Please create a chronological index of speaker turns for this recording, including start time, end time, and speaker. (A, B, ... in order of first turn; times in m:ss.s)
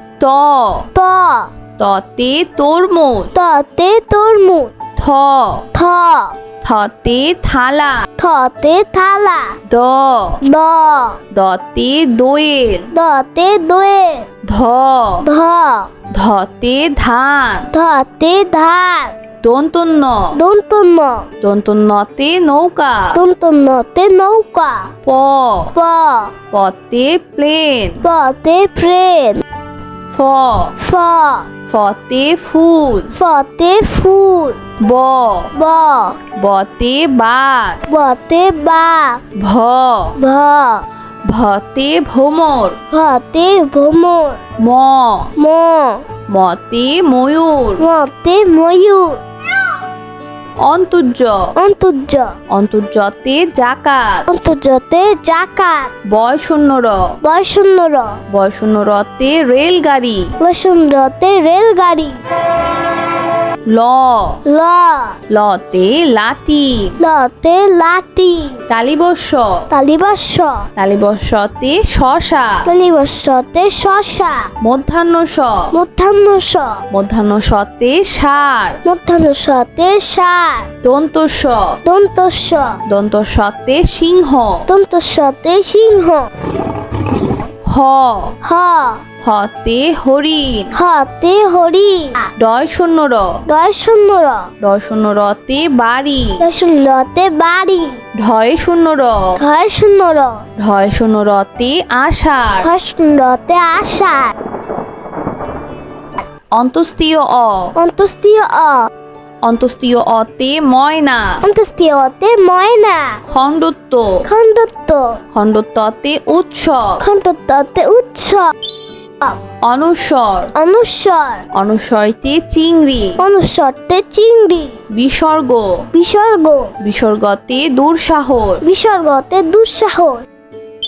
0:00.2-0:00.9 A
0:01.0-0:01.5 B
0:01.8-0:03.3 A
0:03.3-0:04.7 B
0:05.0-0:05.7 A
0:05.7-0:06.3 B
0:06.6-0:08.1 A
0:08.2-0:09.6 B
0:09.7-0:10.4 A
0:10.4-0:11.2 B
0:11.3-0:12.9 A
0:12.9-0:14.3 B
0:14.4-0:15.3 A
0:15.2-0:15.9 B
0:16.1-0:17.7 A
0:17.7-0:19.1 B
0:19.4-0:20.4 A
0:20.3-0:21.3 B
0:21.4-0:23.2 A
0:23.1-0:24.9 B
0:25.0-0:25.7 A
0:25.8-0:26.3 B
0:26.5-0:28.0 A
0:28.0-0:29.4 B
0:30.1-0:30.7 A
0:30.8-0:31.5 B
0:31.7-0:33.1 A
0:33.1-0:34.6 B
0:34.8-0:35.5 A
0:35.5-0:36.2 B
0:36.4-0:37.8 A
0:37.9-0:39.2 B
0:39.4-0:40.2 A
0:40.2-0:40.8 B
0:41.3-0:42.8 A
0:42.9-0:44.4 B
0:44.6-0:45.3 A
0:45.4-0:46.0 B
0:46.3-0:47.8 A
0:47.8-0:49.2 B
0:50.6-0:51.5 A
0:51.6-0:52.4 B
0:52.5-0:54.3 A
0:54.3-0:55.9 B
0:56.1-0:57.2 A
0:57.2-0:58.2 B
0:58.3-1:00.4 A
1:00.4-1:02.2 B
1:03.7-1:04.4 A
1:04.5-1:05.2 B
1:05.3-1:07.0 A
1:07.0-1:08.6 B
1:08.7-1:09.7 A
1:09.7-1:10.7 B
1:10.8-1:12.7 A
1:12.6-1:14.5 B
1:14.6-1:15.8 A
1:15.7-1:16.8 B
1:16.9-1:18.8 A
1:18.8-1:20.7 B
1:20.8-1:21.8 A
1:21.8-1:22.8 B
1:22.9-1:24.7 A
1:24.7-1:26.3 B
1:27.6-1:28.4 A
1:28.4-1:29.0 B
1:29.2-1:30.7 A
1:30.7-1:32.3 B
1:32.4-1:33.4 A
1:33.5-1:34.5 B
1:34.6-1:36.4 A
1:36.4-1:38.0 B
1:38.2-1:39.4 A
1:39.4-1:40.4 B
1:40.6-1:42.7 A
1:42.6-1:44.3 B
1:46.5-1:47.7 A
1:47.8-1:48.9 B
1:49.4-1:51.4 A
1:51.4-1:53.2 B
1:53.3-1:54.3 A
1:54.2-1:55.2 B
1:55.3-1:57.0 A
1:57.0-1:58.5 B
1:59.6-2:00.5 A
2:00.6-2:01.4 B
2:01.5-2:03.2 A
2:03.2-2:04.8 B
2:04.9-2:05.9 A
2:05.9-2:06.7 B
2:06.8-2:08.6 A
2:08.6-2:10.2 B